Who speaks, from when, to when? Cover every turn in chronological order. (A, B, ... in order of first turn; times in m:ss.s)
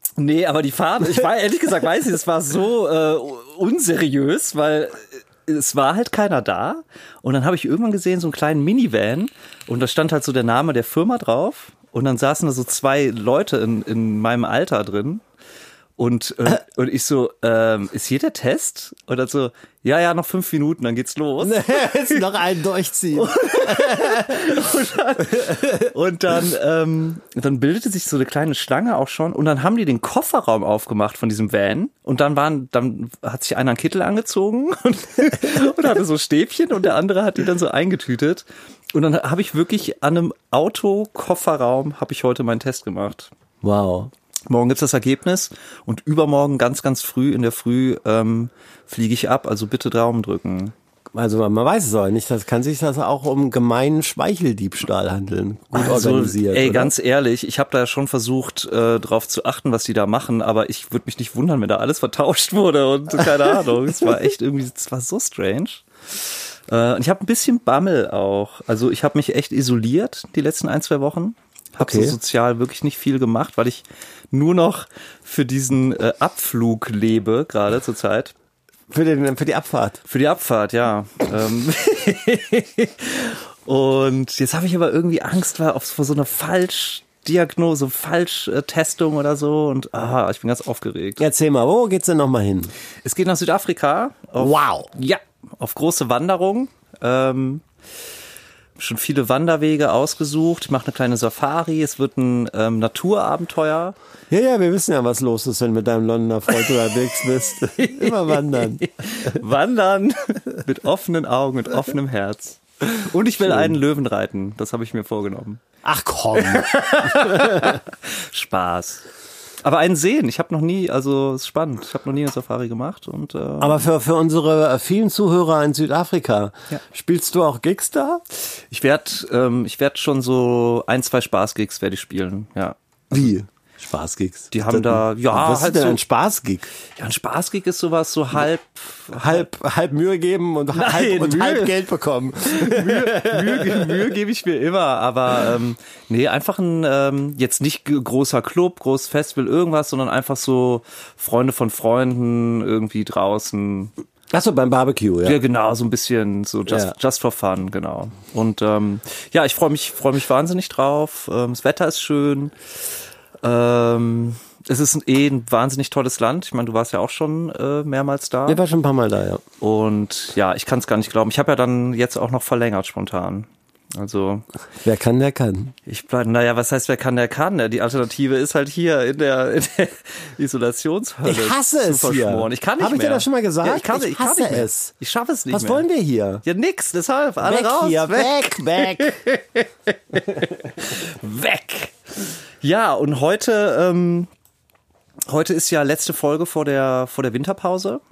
0:00.2-0:15.2 A
0:16.0-0:22.3 A
0:21.4-0:24.7 B
0:23.1-0:43.3 A
0:25.3-0:25.8 B
0:43.6-0:44.1 B
0:44.5-0:50.7 A
0:51.1-0:56.9 B
0:55.7-1:18.3 A
1:11.8-1:12.2 B
1:18.9-1:20.0 B
1:20.1-1:31.2 A
1:31.2-1:32.7 B
1:33.0-1:37.6 A
1:34.4-1:34.9 B
1:38.8-1:44.0 A
1:44.3-1:49.4 B
1:47.8-1:55.6 A
1:53.4-1:53.8 B
1:55.8-1:57.8 B
1:56.4-1:59.0 A
1:59.6-2:03.8 A
2:03.6-2:08.2 B
2:08.7-2:13.3 A
2:13.1-2:16.7 B
2:14.5-2:16.0 A
2:17.0-2:19.4 A
2:19.1-2:24.0 B
2:20.7-2:21.8 A
2:22.4-2:33.9 A
2:34.3-2:35.4 B
2:35.2-2:42.5 A
2:36.7-2:36.9 B
2:43.4-2:48.6 A
2:48.5-2:49.4 B
2:49.6-2:54.4 A
2:54.8-2:55.7 B
2:55.8-3:05.8 A
3:01.2-3:04.9 B
3:05.5-3:06.4 B
3:06.4-3:12.0 A
3:07.4-3:09.2 B
3:12.6-3:14.3 A
3:15.3-3:18.0 A